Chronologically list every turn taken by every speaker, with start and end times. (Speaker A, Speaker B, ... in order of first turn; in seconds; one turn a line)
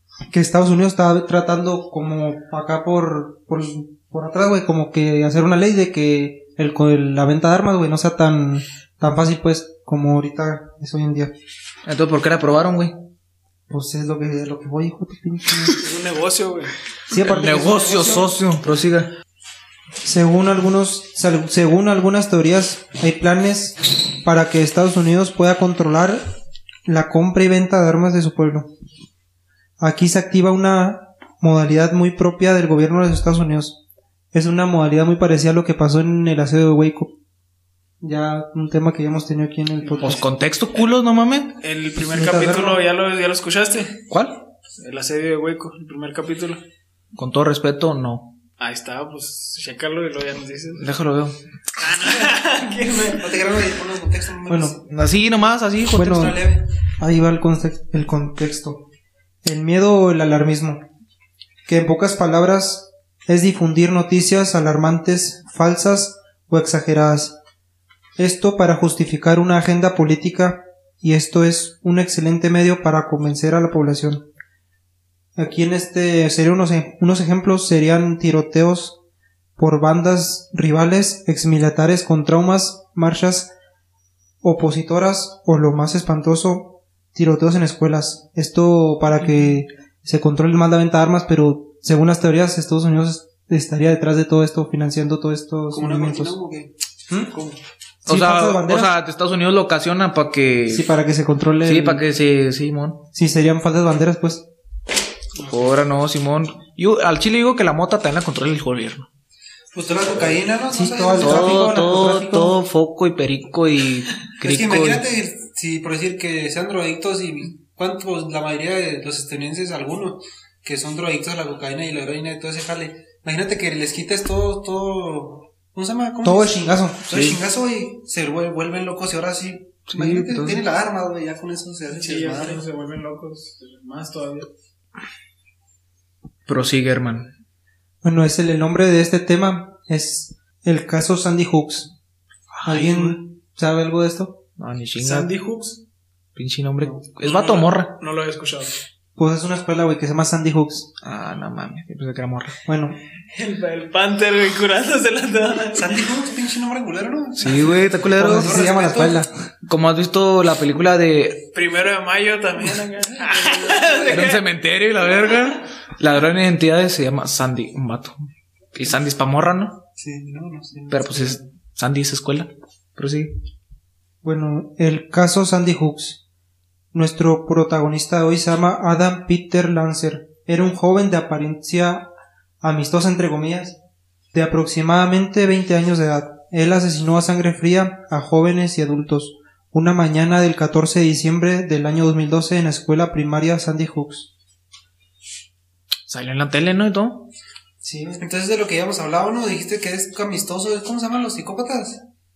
Speaker A: 0.3-11.3
Speaker B: 11.9-12.9
Speaker A: 13.7-15.8
Speaker C: 15.8-16.8
Speaker A: 17.1-18.3
Speaker B: 17.1-19.1
Speaker A: 20.0-26.2
Speaker A: 26.9-28.7
Speaker A: 29.8-33.8
Speaker A: 34.3-37.1
Speaker A: 38.0-40.2
Speaker C: 39.8-40.2
Speaker B: 40.0-41.5
Speaker C: 41.6-44.0
Speaker A: 42.1-42.8
Speaker B: 44.1-44.4
Speaker C: 44.8-46.6
Speaker B: 47.1-48.3
Speaker C: 48.6-50.8
Speaker B: 50.8-51.4
Speaker C: 51.8-53.7
Speaker D: 53.1-54.8
Speaker A: 54.5-54.8
Speaker B: 54.8-56.2
Speaker A: 55.9-56.4
Speaker D: 56.0-56.6
Speaker A: 57.0-58.8
Speaker A: 59.4-60.8
Speaker A: 61.7-67.4
Speaker A: 68.2-74.3
Speaker A: 75.4-79.0
Speaker A: 79.6-83.5
Speaker A: 84.4-96.3
Speaker D: 95.7-96.7
Speaker A: 97.1-97.3
Speaker D: 97.3-97.6
Speaker A: 98.0-98.9
Speaker B: 98.1-100.9
Speaker A: 100.7-102.0
Speaker B: 101.6-103.0
Speaker A: 103.1-104.5
Speaker D: 105.4-105.7
Speaker B: 105.5-109.1
Speaker D: 109.7-111.7
Speaker A: 110.7-112.6
Speaker B: 111.2-115.1
Speaker D: 114.4-132.6
Speaker A: 126.2-127.1
Speaker B: 127.1-127.4
Speaker B: 129.9-130.6
Speaker C: 131.9-134.5
Speaker B: 136.5-137.3
Speaker A: 138.0-141.9
Speaker B: 142.5-143.2
Speaker A: 142.6-144.4
Speaker B: 144.6-145.3
Speaker C: 145.0-145.8
Speaker B: 146.3-147.9
Speaker C: 147.1-148.8
Speaker A: 149.2-150.9
Speaker B: 151.0-152.6
Speaker A: 152.7-153.0
Speaker C: 153.3-156.0
Speaker D: 155.7-159.2
Speaker B: 157.4-158.6
Speaker A: 158.1-159.3
Speaker B: 159.7-161.4
Speaker C: 161.6-164.4
Speaker D: 163.2-164.3
Speaker B: 164.1-168.2
Speaker B: 168.7-169.8
Speaker D: 170.0-171.4
Speaker B: 170.9-173.3
Speaker A: 174.2-176.2
Speaker A: 176.9-182.1
Speaker A: 182.6-183.8
Speaker A: 184.3-194.3
Speaker B: 196.1-197.3
Speaker A: 197.8-198.2
Speaker D: 198.2-202.0